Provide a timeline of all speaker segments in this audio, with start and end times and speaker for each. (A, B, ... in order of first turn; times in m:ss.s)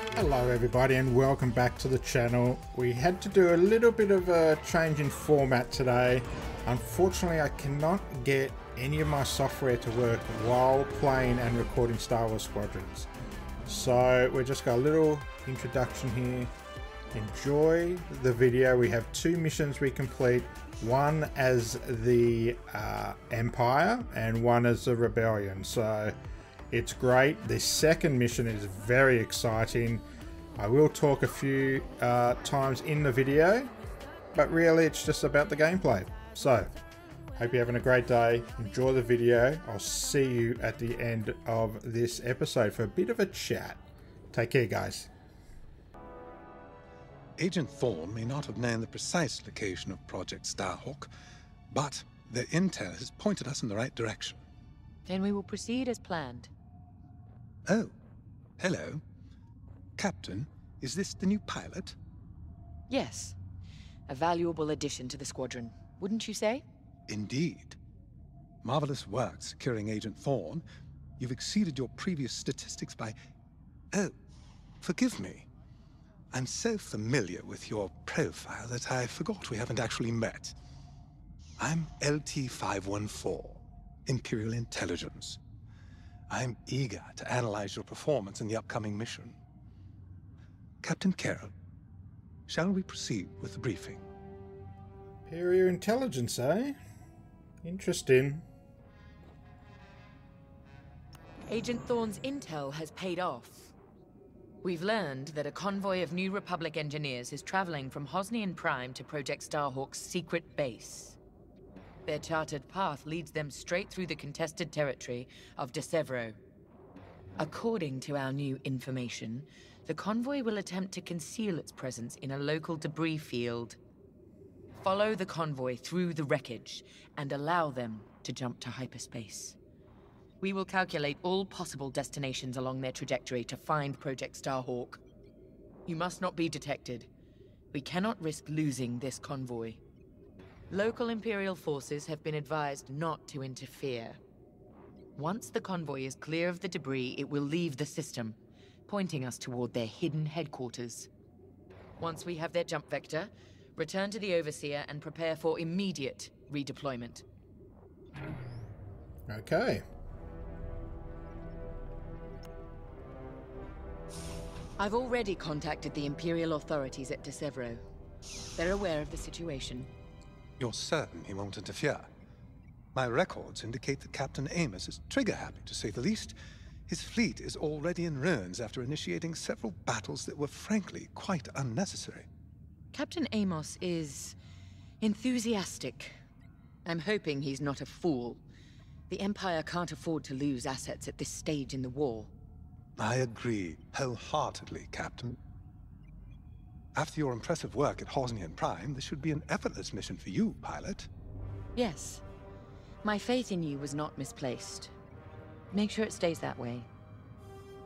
0:00.1-0:13.1 A
0:13.7-0:16.5 A
0:17.1-0:26.2 A
0:26.7-0:30.0 A
0:30.6-0:33.7 A
0:34.3-0:36.8 A
0:37.4-0:43.8 A
0:44.3-0:45.1 A
0:47.4-0:51.1 B
0:51.7-0:54.4 B
0:55.1-0:56.5 C
0:57.7-0:57.9 B
0:58.6-0:59.0 B
1:00.0-1:02.0 B
1:02.9-1:03.4 C
1:04.1-1:06.6 C
1:07.1-1:07.8 B
1:08.6-1:10.6 B
1:11.2-1:13.2 B
1:14.8-1:15.5 B
1:16.3-1:20.6 B
1:21.6-1:25.4 B
1:26.3-1:29.4 B
1:30.8-1:31.5 B
1:32.5-1:34.0 B
1:35.3-1:36.8 A
1:37.6-1:38.4 A
1:41.5-1:43.7 C
1:44.6-1:51.2 C
1:52.1-1:56.4 C
1:57.4-2:03.8 C
2:04.8-2:09.6 C
2:10.4-2:15.0 C
2:15.9-2:17.1 C
2:17.7-2:19.8 C
2:20.7-2:24.2 C
2:25.2-2:28.4 C
2:28.9-2:31.1 C
2:32.0-2:37.2 C
2:39.3-2:39.8 A
2:44.8-2:47.8 C
2:48.6-2:49.9 C
2:50.6-2:52.1 B
2:52.9-3:02.3 B
3:02.9-3:04.4 C
3:05.0-3:06.2 C
3:06.9-3:08.4 C
3:09.1-3:12.3 C
3:13.0-3:15.4 B
3:17.0-3:21.1 B
3:21.8-3:22.2 C
3:23.0-3:24.9 C
3:25.7-3:26.9 C